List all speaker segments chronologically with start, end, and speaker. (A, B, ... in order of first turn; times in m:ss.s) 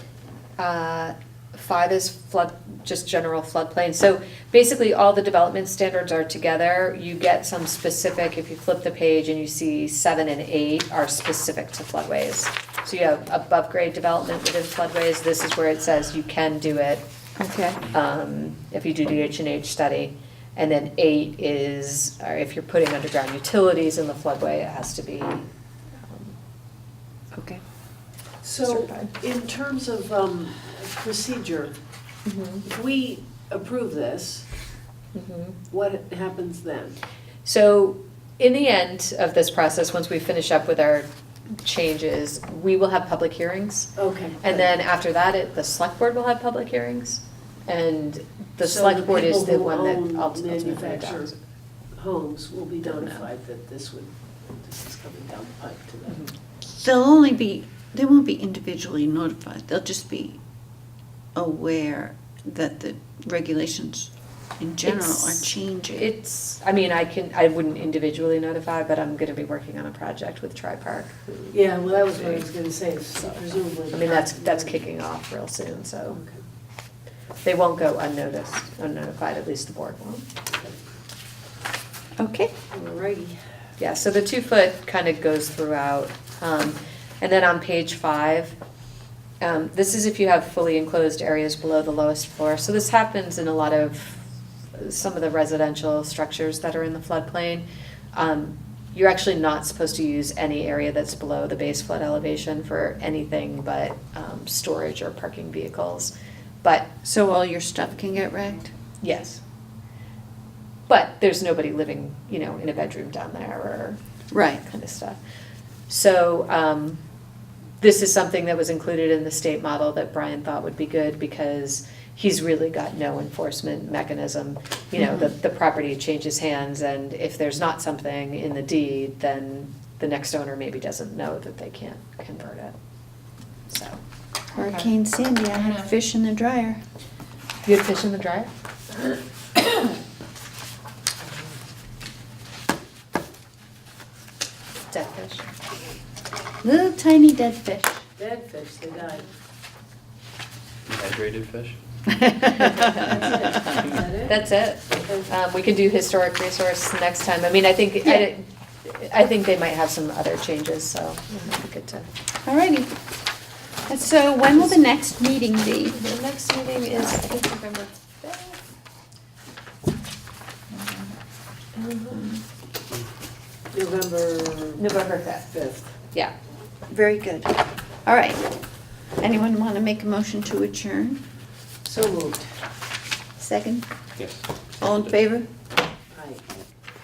0:00.6-0:17.0 A
0:17.4-0:17.8 B
0:17.9-0:25.4 A
0:27.3-0:27.6 B
0:28.4-0:31.7 C
0:28.6-0:29.1 A
0:32.2-0:32.6 A
0:32.6-0:34.5 C
0:35.1-0:35.6 A
0:35.7-0:37.0 C
0:37.4-0:51.3 A
0:44.0-0:44.7 C
0:48.6-0:51.3 C
0:51.9-0:56.3 C
0:52.9-0:53.2 A
0:56.7-1:00.4 B
1:01.3-1:06.1 B
1:04.8-1:12.4 A
1:11.5-1:14.8 C
1:13.9-1:16.2 A
1:16.1-1:16.4 C
1:17.4-1:20.3 A
1:22.2-1:22.5 B
1:22.7-1:23.4 C
1:23.8-1:28.5 A
1:29.4-1:46.9 A
1:47.0-1:48.7 B
1:49.0-1:49.4 A
1:50.9-1:54.0 A
1:54.3-1:54.6 B
1:54.6-1:55.2 A
1:55.9-1:57.0 A
1:57.8-2:12.8 A
2:13.7-2:14.0 A
2:14.5-2:16.8 B
2:14.6-2:14.9 A
2:17.6-2:18.5 A
2:24.9-2:25.5 A
2:26.6-2:28.0 B
2:28.2-2:29.3 C
2:30.8-2:31.8 D
2:32.1-2:32.9 B
2:32.6-2:33.3 A
2:32.7-2:34.3 C
2:34.2-2:42.1 A
2:35.0-2:35.3 C
2:42.4-2:42.9 B
2:43.9-2:46.0 B
2:45.9-2:48.6 A
2:50.7-2:51.0 B
2:51.7-2:52.4 A
2:53.7-2:54.9 C
2:54.8-2:55.6 A
2:55.5-2:55.9 C
2:56.9-2:58.4 B
2:59.2-3:01.2 B
3:01.8-3:02.5 C
3:03.4-3:03.8 B
3:04.2-3:05.2 D
3:04.8-3:05.5 B
3:06.1-3:06.4 C